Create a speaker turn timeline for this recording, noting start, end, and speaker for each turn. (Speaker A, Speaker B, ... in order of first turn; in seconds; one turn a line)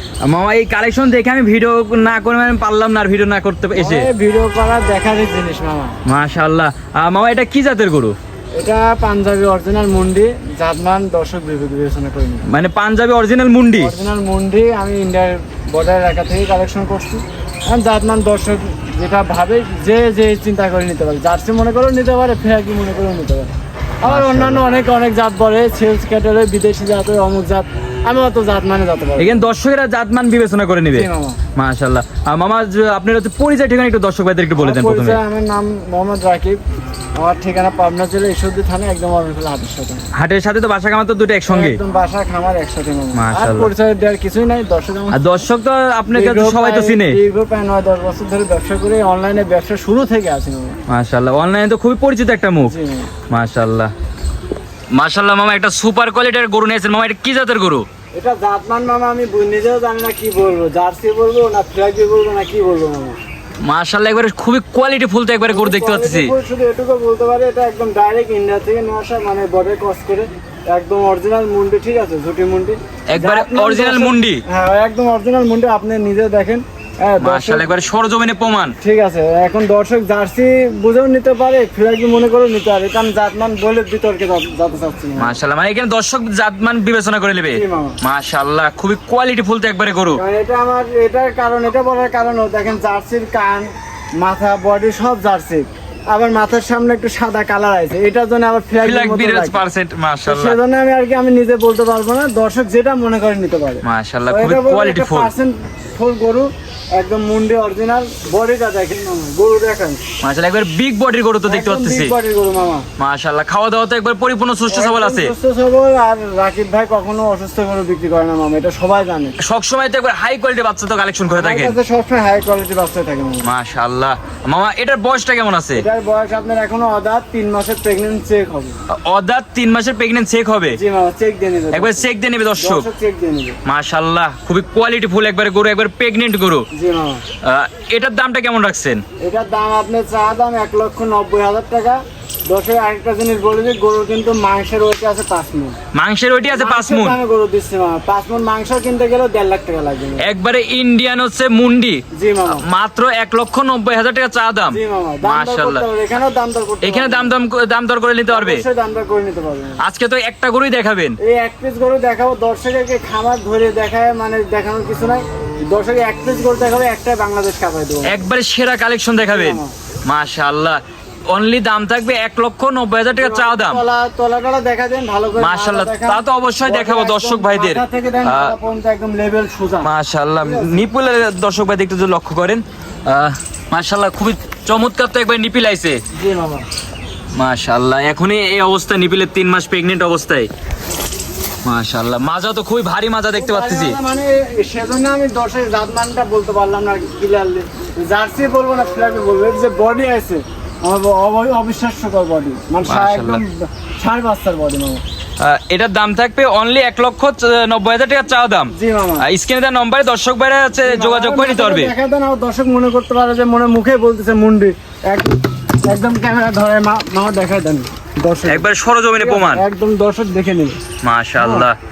Speaker A: 0.2-4.1
Speaker B: 3.8-6.0
Speaker A: 6.0-8.2
Speaker B: 8.6-12.4
Speaker A: 12.5-13.9
Speaker B: 13.8-23.5
Speaker B: 24.0-29.4
Speaker A: 24.1-24.7
Speaker A: 29.2-35.2
Speaker B: 30.9-31.4
Speaker B: 34.6-36.6
Speaker B: 37.2-40.0
Speaker A: 40.1-41.8
Speaker B: 41.5-45.4
Speaker A: 43.2-43.7
Speaker A: 45.1-47.2
Speaker B: 46.1-50.8
Speaker A: 50.9-52.7
Speaker B: 52.6-53.1
Speaker A: 53.3-53.9
Speaker A: 54.9-57.9
Speaker B: 58.1-63.2
Speaker A: 63.6-66.3
Speaker B: 65.5-77.7
Speaker A: 73.1-74.4
Speaker A: 77.2-78.8
Speaker B: 78.8-85.3
Speaker A: 85.2-90.2
Speaker B: 87.5-88.0
Speaker B: 90.2-93.7
Speaker B: 94.2-99.6
Speaker A: 98.8-100.6
Speaker B: 100.2-110.0
Speaker A: 103.8-105.3
Speaker A: 110.2-112.1
Speaker B: 111.5-112.9
Speaker A: 113.0-115.3
Speaker B: 114.7-119.4
Speaker A: 119.4-121.8
Speaker B: 121.3-123.5
Speaker A: 123.4-125.8
Speaker B: 125.8-128.8
Speaker A: 128.9-130.8
Speaker B: 130.7-133.6
Speaker A: 131.7-132.8
Speaker A: 133.7-136.7
Speaker B: 136.7-137.2
Speaker A: 137.4-139.0
Speaker B: 139.2-145.8
Speaker A: 145.9-147.2
Speaker B: 146.5-150.2
Speaker A: 150.2-152.0
Speaker B: 152.1-152.6
Speaker A: 152.6-155.8
Speaker B: 154.7-157.3
Speaker A: 156.8-158.6
Speaker B: 158.3-159.8
Speaker A: 159.8-161.2
Speaker B: 161.2-168.2
Speaker A: 168.1-173.8
Speaker B: 169.2-169.7
Speaker B: 173.2-179.9
Speaker A: 175.4-178.5
Speaker A: 179.8-186.0
Speaker B: 180.4-180.9
Speaker B: 186.1-186.7
Speaker A: 187.3-190.5
Speaker A: 191.6-194.0
Speaker B: 193.3-205.0
Speaker A: 202.9-203.4
Speaker A: 205.4-211.9
Speaker B: 208.7-209.2
Speaker B: 210.8-218.7
Speaker A: 218.5-219.6
Speaker B: 219.2-220.8
Speaker A: 221.0-221.8
Speaker B: 221.4-221.7